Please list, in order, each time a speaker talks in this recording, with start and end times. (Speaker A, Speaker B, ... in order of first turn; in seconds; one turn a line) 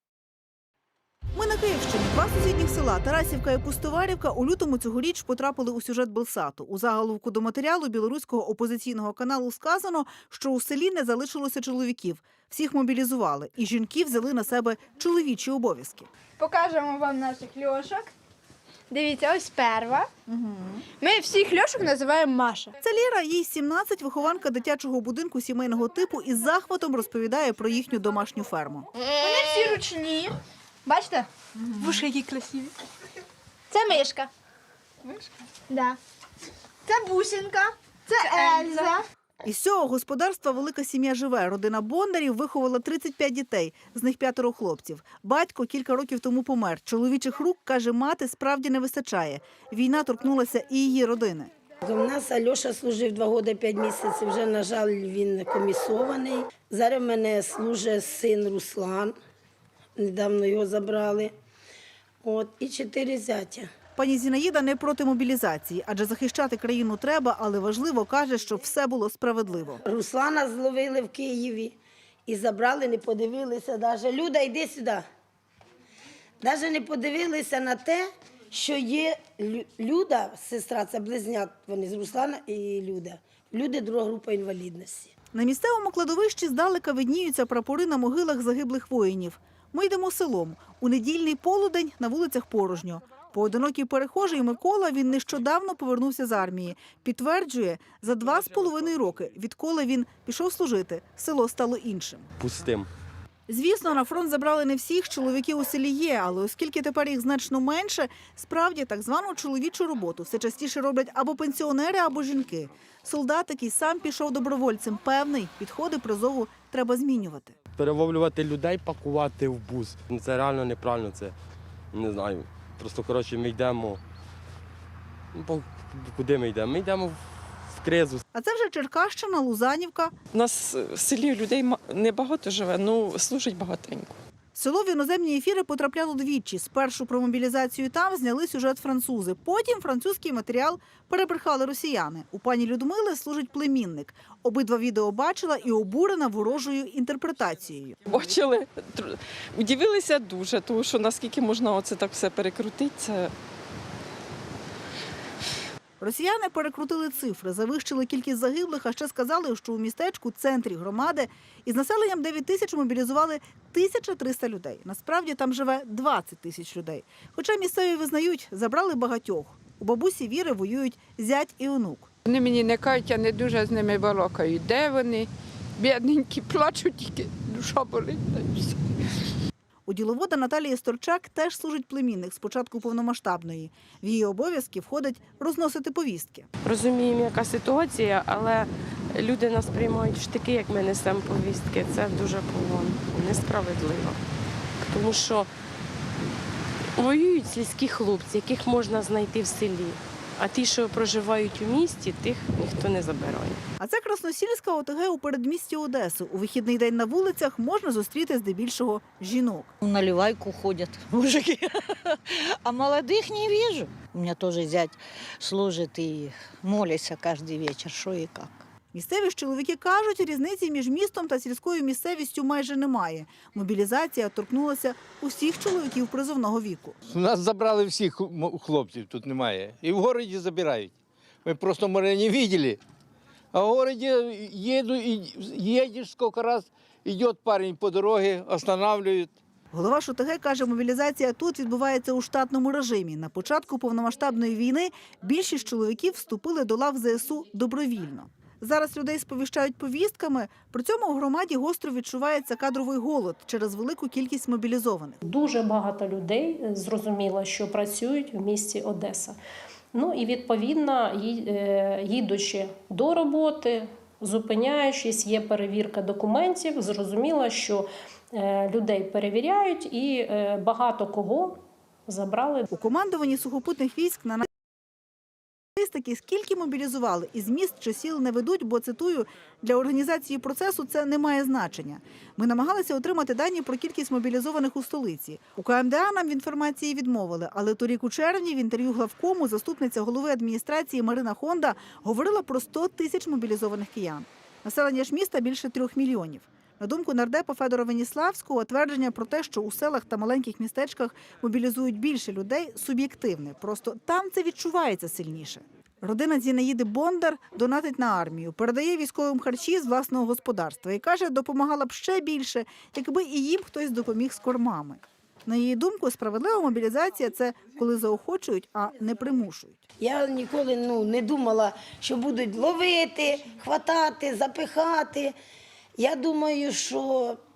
Speaker A: 1.3-16.1
Speaker B: 16.4-18.1
Speaker B: 18.9-20.1
Speaker B: 20.8-22.8
Speaker A: 22.8-28.9
Speaker B: 29.0-32.7
Speaker B: 33.7-34.3
Speaker B: 35.0-36.0
Speaker B: 36.8-39.0
Speaker A: 39.4-51.5
Speaker C: 51.8-59.1
Speaker C: 60.0-61.3
Speaker C: 62.2-63.7
Speaker A: 64.0-69.8
Speaker C: 69.8-75.0
Speaker C: 76.4-85.1
Speaker A: 85.3-102.3
Speaker D: 102.4-102.9
Speaker A: 103.5-117.5
Speaker D: 117.8-121.3
Speaker D: 121.9-124.0
Speaker D: 125.3-128.2
Speaker A: 128.3-130.1
Speaker E: 130.3-134.2
Speaker A: 134.6-148.0
Speaker E: 148.1-153.3
Speaker A: 156.0-172.1
Speaker F: 172.3-178.8
Speaker A: 179.9-186.5
Speaker G: 186.6-194.2
Speaker G: 194.8-195.5
Speaker G: 197.0-203.6
Speaker A: 203.8-209.7
Speaker H: 209.8-211.7
Speaker H: 212.6-218.5
Speaker A: 218.9-227.0
Speaker I: 227.1-230.9
Speaker I: 231.4-232.8
Speaker I: 233.5-239.3
Speaker A: 239.7-255.2
Speaker J: 255.2-259.4
Speaker J: 259.9-272.7
Speaker A: 272.7-274.5
Speaker A: 275.8-319.8
Speaker C: 320.0-325.3
Speaker C: 326.0-327.4